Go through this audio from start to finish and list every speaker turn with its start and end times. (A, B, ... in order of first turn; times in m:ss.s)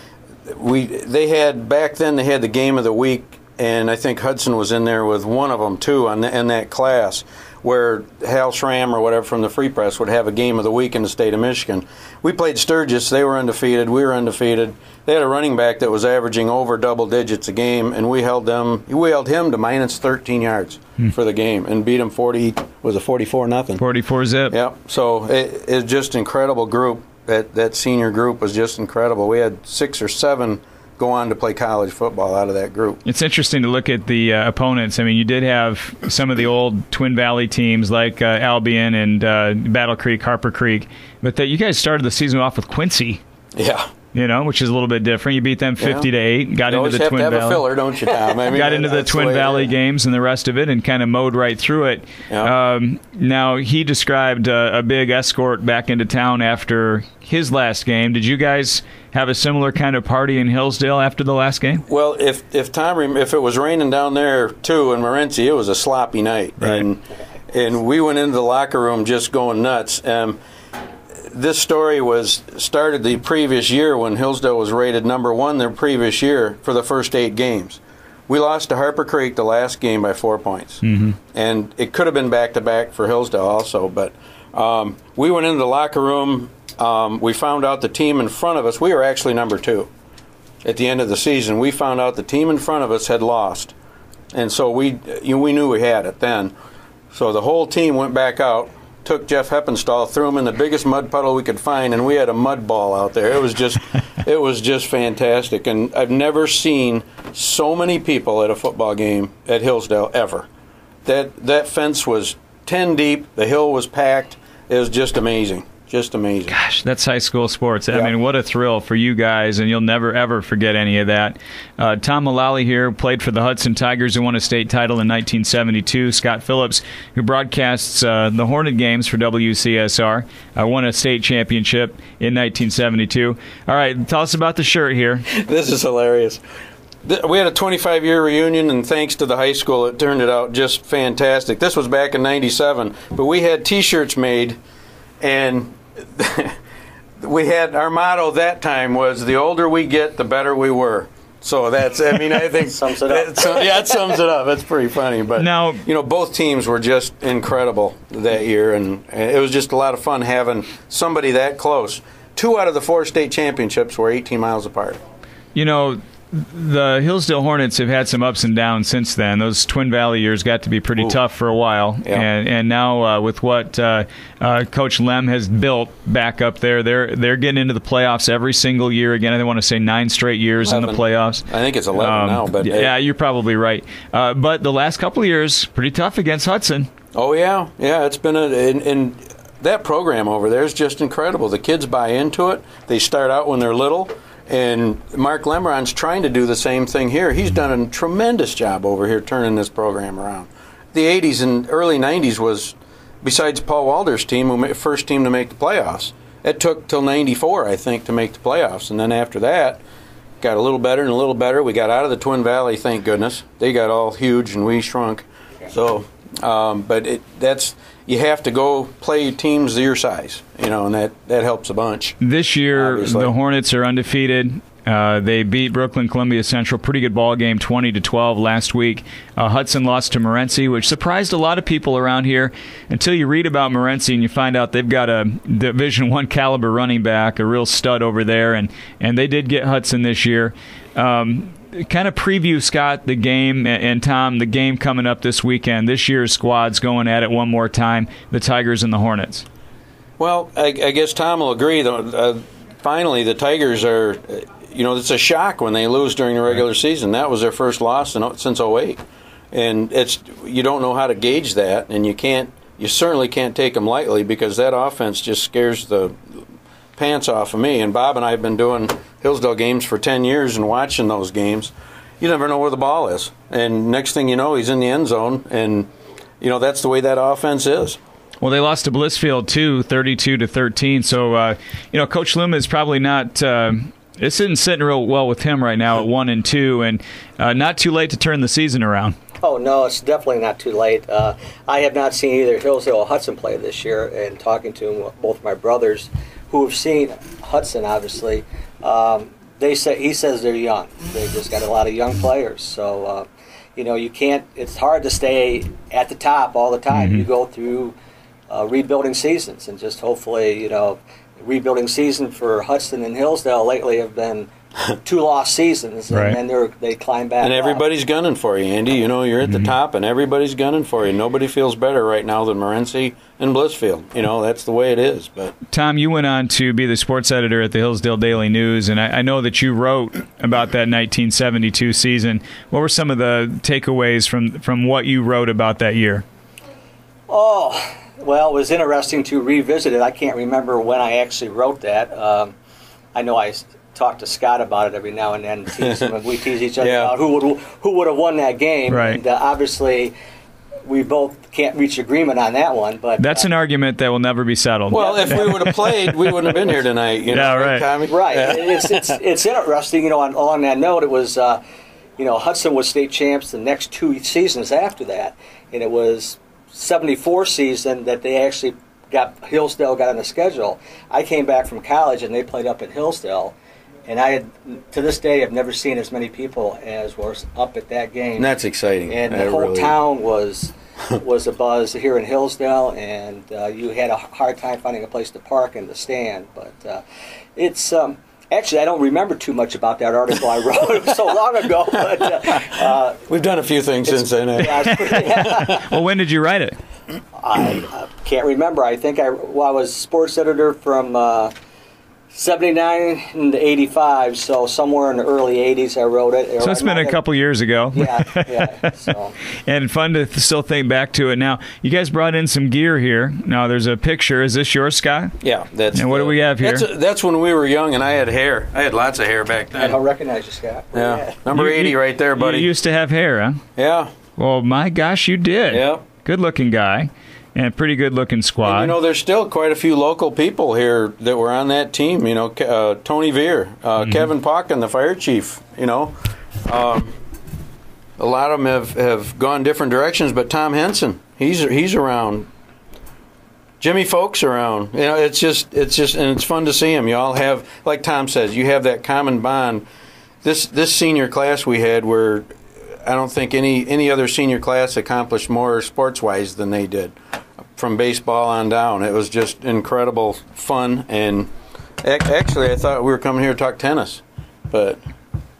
0:00.5-0:23.8 A
0:23.8-0:24.5 B
0:24.5-0:33.0 A
0:33.0-0:43.2 B
0:43.6-0:43.9 A
0:44.1-0:47.6 B
0:45.8-0:46.1 A
0:46.7-0:49.7 A
0:48.1-0:48.4 C
0:48.5-1:01.8 B
1:01.9-1:10.4 A
1:11.3-1:29.9 A
1:20.8-1:21.2 B
1:30.6-1:33.7 A
1:34.3-1:36.5 A
1:37.1-1:50.5 A
1:51.0-1:56.6 A
1:56.5-2:15.2 B
2:15.3-2:16.4 A
2:17.0-2:24.6 A
2:25.2-2:26.6 A
2:27.2-2:45.0 A
2:32.6-2:33.8 C
2:35.4-2:35.8 B
2:45.5-3:06.9 B
3:00.6-3:02.9 A
3:07.1-3:29.8 A
3:30.4-3:42.2 A
3:42.2-4:09.4 B
3:42.7-3:43.3 A
4:10.2-4:19.0 A
4:19.5-4:26.2 A
4:27.0-4:35.9 A
4:36.4-4:38.0 A
4:38.4-4:49.1 B
4:49.4-5:07.9 C
5:06.9-5:07.2 B
5:08.5-5:17.8 C
5:16.1-5:16.4 B
5:17.4-5:25.5 A
5:19.4-5:19.7 B
5:25.7-5:36.2 B
5:37.3-5:42.5 C
5:43.1-5:50.1 C
5:46.8-5:47.1 A
5:48.9-5:49.2 B
5:50.8-5:53.5 C
5:53.2-5:56.5 B
5:54.9-5:55.7 C
5:54.9-5:59.1 A
5:57.3-5:57.9 B
5:58.1-6:01.6 C
6:02.2-6:13.5 C
6:14.1-6:18.5 C
6:18.4-6:20.0 A
6:19.1-6:27.0 C
6:27.6-6:33.2 C
6:33.3-6:35.7 A
6:34.0-6:35.9 C
6:35.4-6:36.8 B
6:37.4-6:41.5 C
6:42.3-6:47.2 C
6:46.6-6:48.9 B
6:47.9-6:49.4 C
6:49.6-6:55.4 B
6:55.4-7:00.0 A
6:55.9-6:56.9 B
6:59.8-7:01.3 C
7:00.9-7:02.7 A
7:01.5-7:03.6 B
7:03.8-7:04.1 A
7:04.4-7:08.9 B
7:05.7-7:06.0 A
7:08.6-7:17.1 A
7:18.2-7:22.5 A
7:23.8-7:29.8 A
7:30.4-7:32.4 A
7:33.0-7:37.1 A
7:37.8-7:41.5 A
7:42.0-7:45.0 A